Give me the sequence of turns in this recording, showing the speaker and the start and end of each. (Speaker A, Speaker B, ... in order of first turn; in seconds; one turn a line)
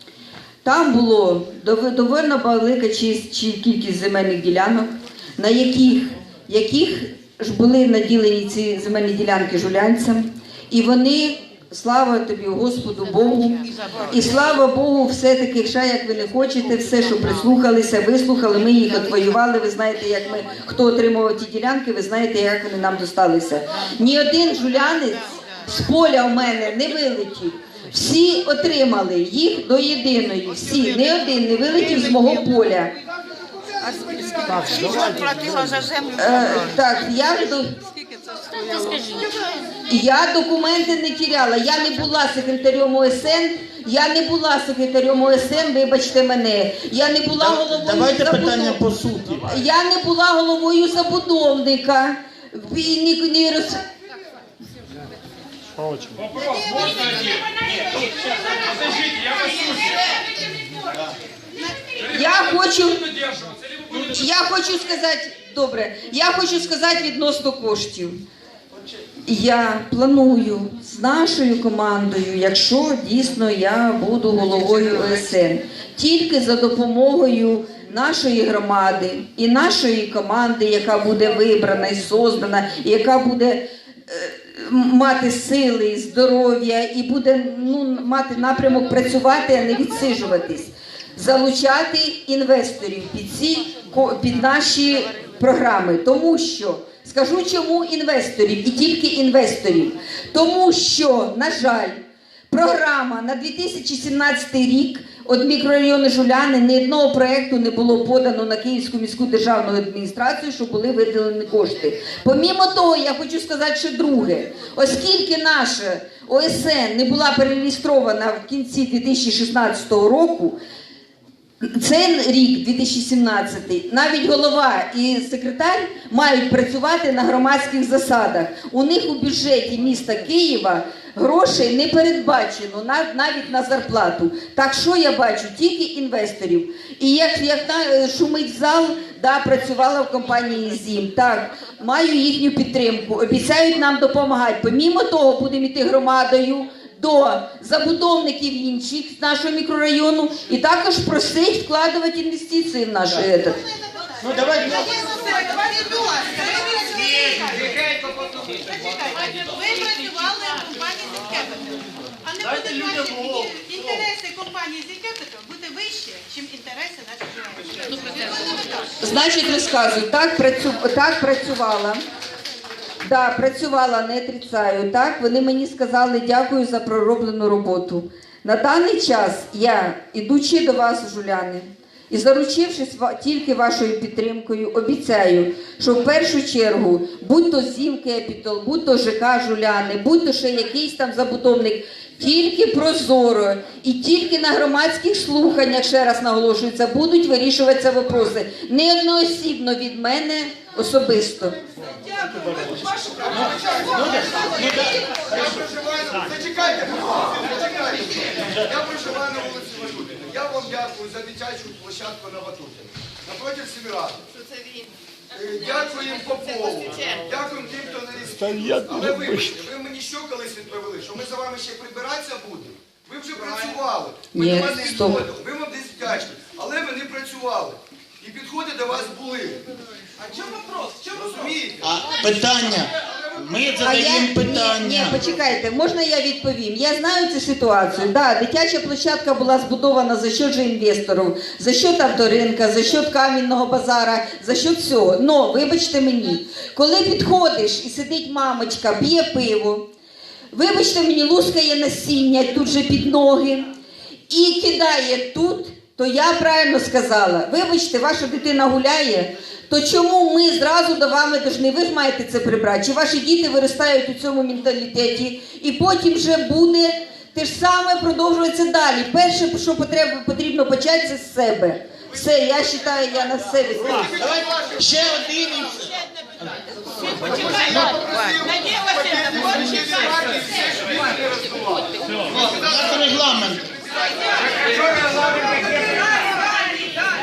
Speaker A: 0.6-32.9
Speaker B: 34.6-35.1
Speaker A: 36.1-37.7
Speaker A: 39.9-48.8
Speaker B: 47.4-49.5
Speaker A: 49.5-53.8
Speaker B: 55.9-56.3
Speaker C: 59.2-59.8
Speaker A: 62.0-63.1
Speaker A: 63.9-68.2
Speaker A: 69.3-120.6
Speaker A: 121.6-153.6
Speaker B: 154.3-154.8
Speaker C: 154.3-168.9
Speaker A: 169.0-172.0
Speaker A: 173.0-201.6
Speaker B: 202.4-202.7
Speaker D: 202.4-214.2
Speaker B: 203.3-205.5
Speaker D: 215.3-229.6
Speaker B: 218.5-219.5
Speaker A: 224.3-225.2
Speaker D: 230.2-231.8
Speaker B: 231.8-235.2
Speaker A: 233.8-249.9
Speaker A: 250.5-253.7
Speaker A: 254.3-274.2
Speaker B: 274.2-277.8
Speaker D: 277.1-282.7
Speaker B: 282.4-283.7
Speaker D: 284.6-285.9